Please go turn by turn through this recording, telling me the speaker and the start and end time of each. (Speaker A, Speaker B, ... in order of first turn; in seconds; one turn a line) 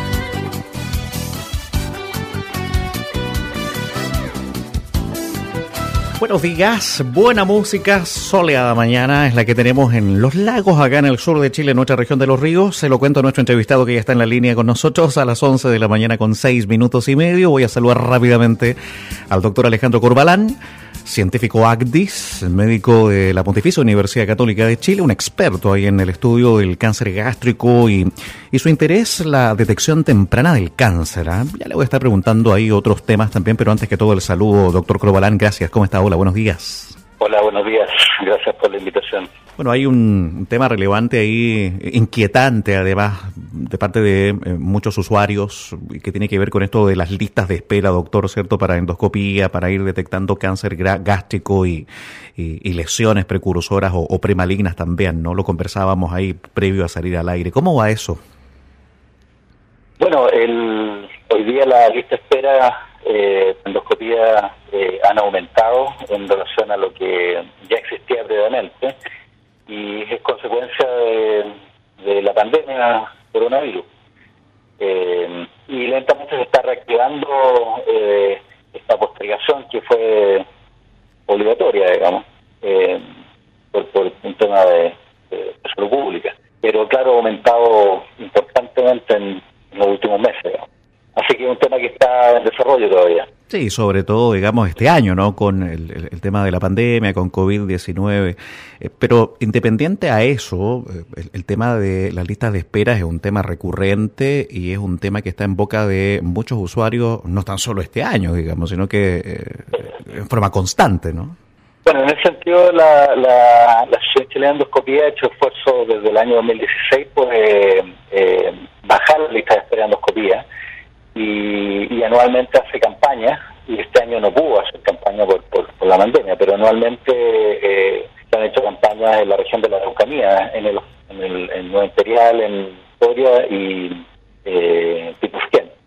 Speaker A: 6.2-18.8
Speaker A: 19.3-37.0
Speaker B: 37.2-39.3
Speaker A: 39.6-58.2
Speaker B: 60.0-68.9
Speaker B: 69.7-73.9
Speaker B: 74.8-80.4
Speaker B: 81.3-83.0
Speaker B: 83.7-93.3
Speaker A: 93.5-111.3
Speaker B: 111.8-120.4
Speaker B: 121.1-135.7